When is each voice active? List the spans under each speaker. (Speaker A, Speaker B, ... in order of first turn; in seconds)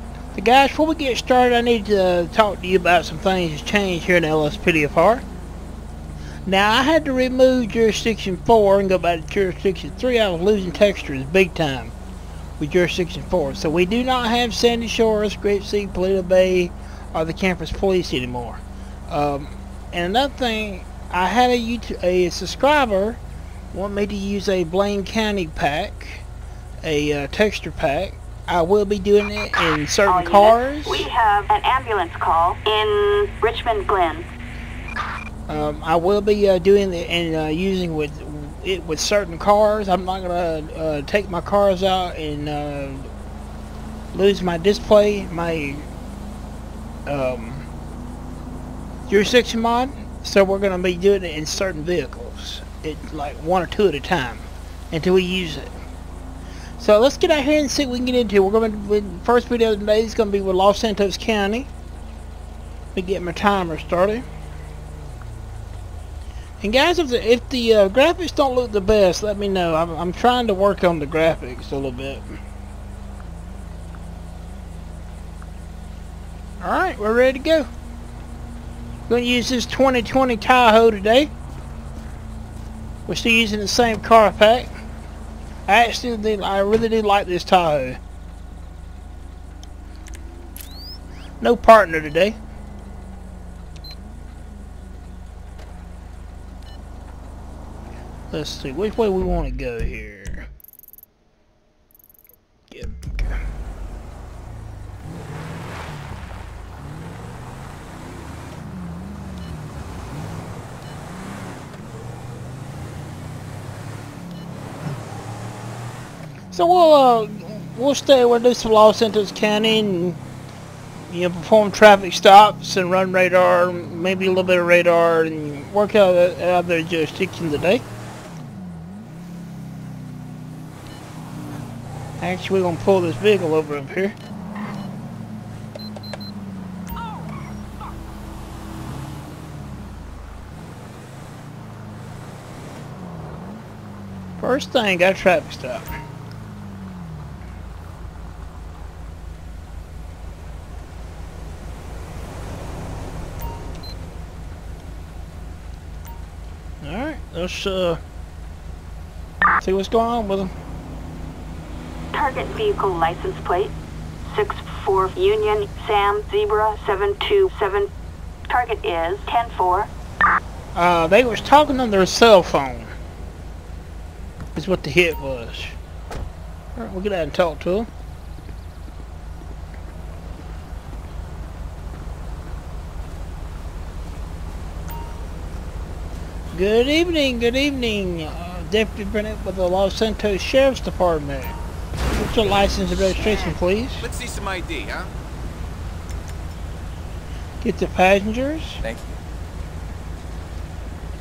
Speaker A: 0.3-5.2, 6.5-11.9, 12.6-23.2, 23.7-26.2, 26.8-31.1, 35.5-43.1, 44.1-45.9, 47.1-47.7, 49.1-55.7, 56.8-61.7, 62.9-64.2, 66.6-72.4, 76.6-77.7, 79.1-81.3, 83.1-84.7, 85.7-88.0, 91.4-92.4, 98.3-100.5, 102.7-103.4, 116.5-120.2, 121.1-127.8, 132.2-134.2, 144.4-146.0, 156.8-158.0, 159.6-160.5, 170.7-172.9, 174.5-175.8, 176.8-177.9, 186.5-191.6, 192.1-194.1, 197.6-198.8
Speaker B: 30.1-34.2, 162.1-163.7, 164.2-167.9, 168.5-169.9
Speaker C: 193.3-195.1, 198.8-199.2